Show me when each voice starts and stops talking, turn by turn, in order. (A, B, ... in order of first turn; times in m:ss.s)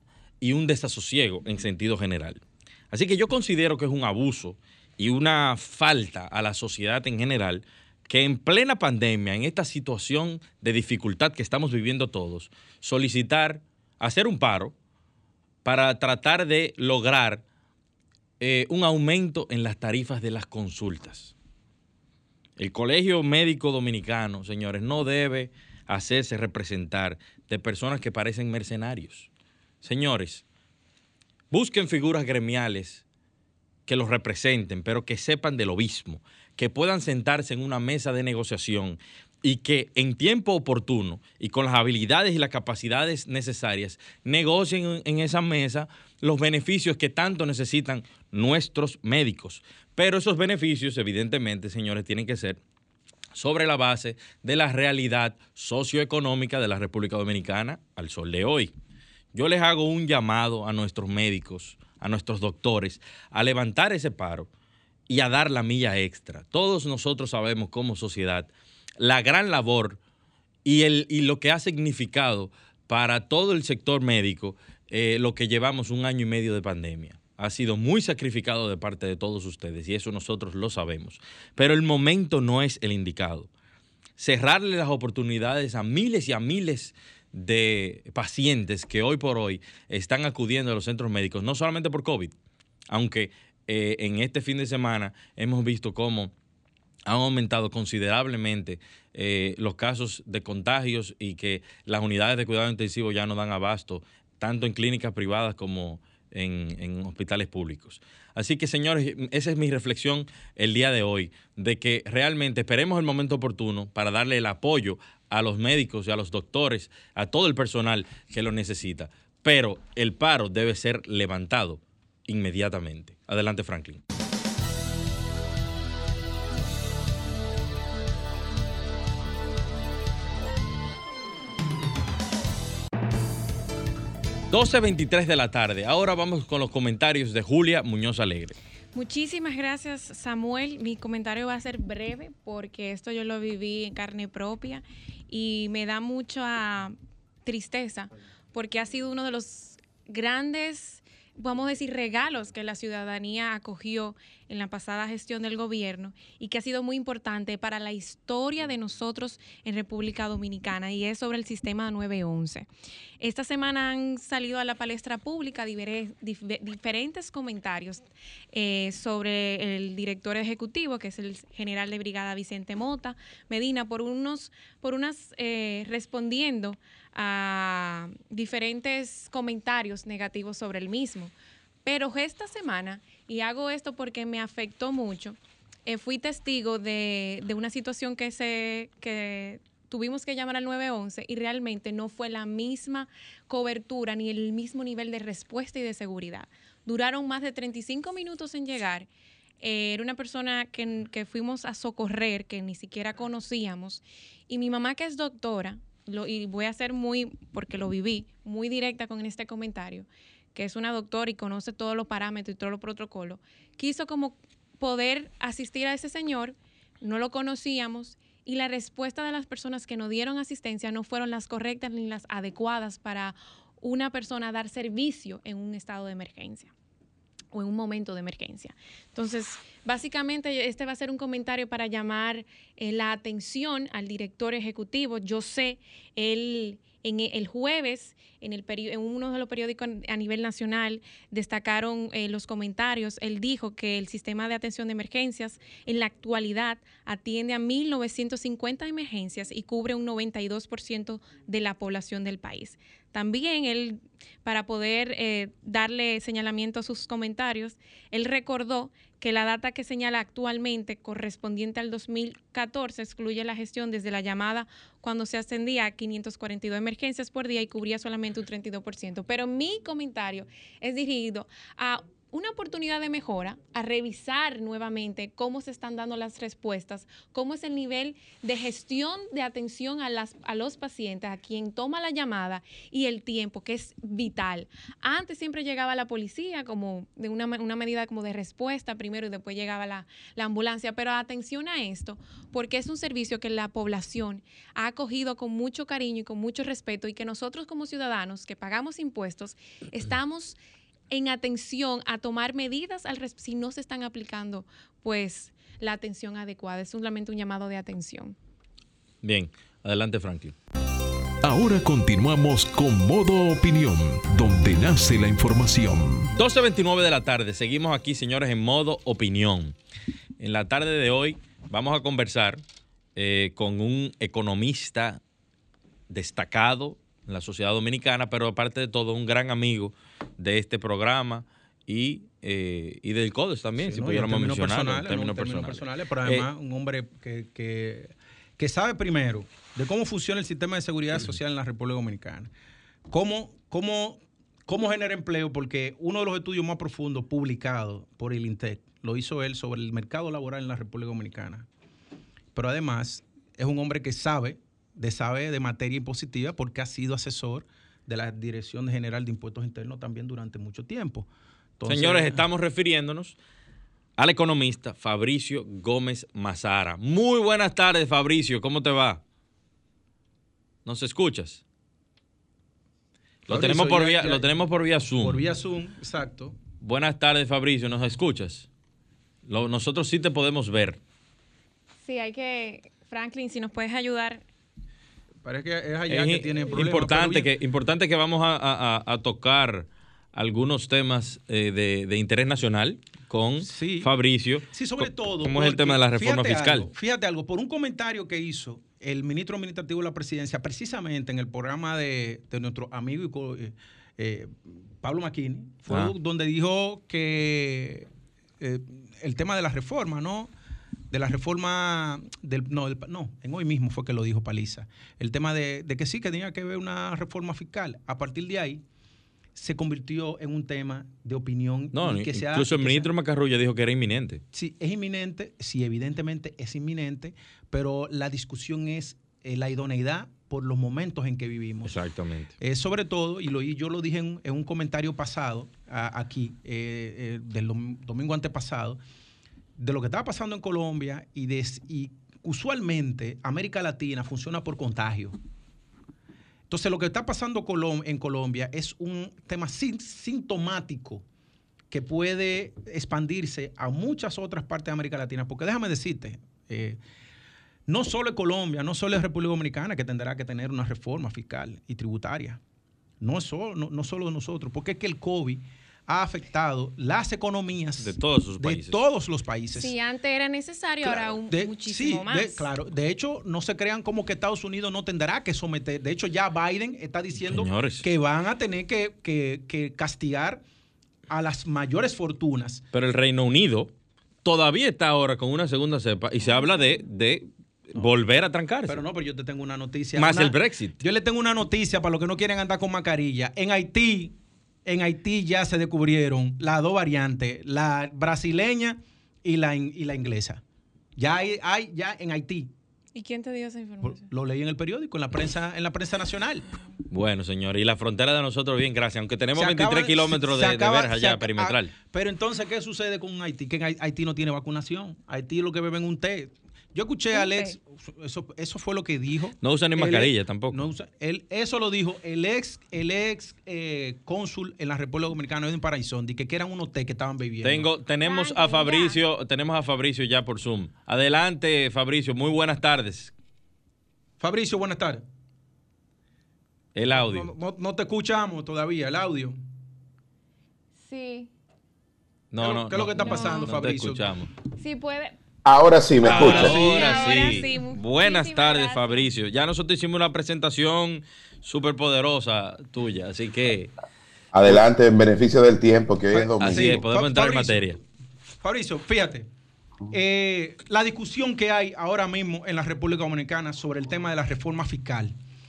0:00.4-0:14.7 A
0:15.6-0:17.4 A
0:18.4-0:21.3 A
0:22.6-0:29.3 A
0:29.8-0:30.4 A
0:31.5-0:33.0 A
0:33.9-0:52.6 A
0:53.3-0:58.7 A
0:59.3-1:04.5 A
1:05.1-1:10.0 A
1:10.6-1:23.5 A
1:24.2-1:32.3 A
1:32.9-1:36.3 A
1:37.0-2:04.0 A
2:14.5-2:18.5 A
2:18.9-2:42.7 B
2:43.2-3:01.3 B
3:01.8-3:19.1 B
3:19.6-3:46.7 B
3:47.5-5:00.6 B
5:01.1-5:08.3 B
5:09.2-5:10.5 A
5:11.4-5:16.3 C
5:16.3-5:19.7 A
5:20.4-5:22.6 A
5:23.2-5:25.2 A
5:26.1-5:36.5 A
5:33.8-5:42.5 D
5:43.1-5:51.7 D
5:52.5-6:02.4 D
6:01.9-6:03.4 A
6:04.2-6:09.2 A
6:10.8-6:11.6 A
6:13.5-6:15.4 A
6:13.5-6:14.5 D
6:15.2-6:16.6 D
6:16.8-6:18.7 A
6:19.4-6:21.0 A
6:22.0-6:24.4 B
6:25.4-6:27.5 D
6:26.1-6:36.9 A
6:33.6-6:34.1 D
6:34.7-6:48.1 D
6:45.9-6:46.1 A
6:48.6-6:50.5 D
6:51.1-6:58.8 D
6:59.5-7:03.1 D
7:01.9-7:04.4 A
7:04.5-7:11.9 D
7:11.8-7:12.5 A
7:12.6-7:19.0 D
7:19.8-7:25.4 D
7:26.7-7:31.2 D
7:31.9-7:37.0 D
7:37.9-7:42.6 D
7:43.2-7:49.9 D
7:48.0-7:49.0 A
7:49.7-7:52.7 B
7:51.0-8:00.6 D
7:57.5-7:58.0 A
8:01.3-8:02.8 D
8:02.9-8:03.9 A
8:04.4-8:09.0 A
8:08.8-8:20.6 D
8:10.2-8:11.0 A
8:21.2-8:22.7 D
8:23.1-8:24.3 B
8:24.0-8:26.6 D
8:27.1-8:31.9 A
8:29.5-8:47.9 D
8:37.3-8:37.8 B
8:39.6-8:40.8 A
8:47.6-8:53.3 A
8:48.2-8:49.2 B
8:54.4-8:55.2 D
8:56.9-8:57.5 A
8:57.2-8:59.6 D
9:01.0-9:01.5 B
9:02.5-9:04.5 A
9:02.6-9:04.3 D
9:03.2-9:03.7 B
9:04.8-9:05.4 B
9:05.6-9:06.8 E
9:06.2-9:07.6 D
9:06.2-9:13.9 A
9:06.4-9:09.3 B
9:14.5-9:17.0 E
9:16.3-9:18.0 D
9:16.6-9:18.0 A
9:18.6-9:19.5 D
9:20.1-9:25.3 D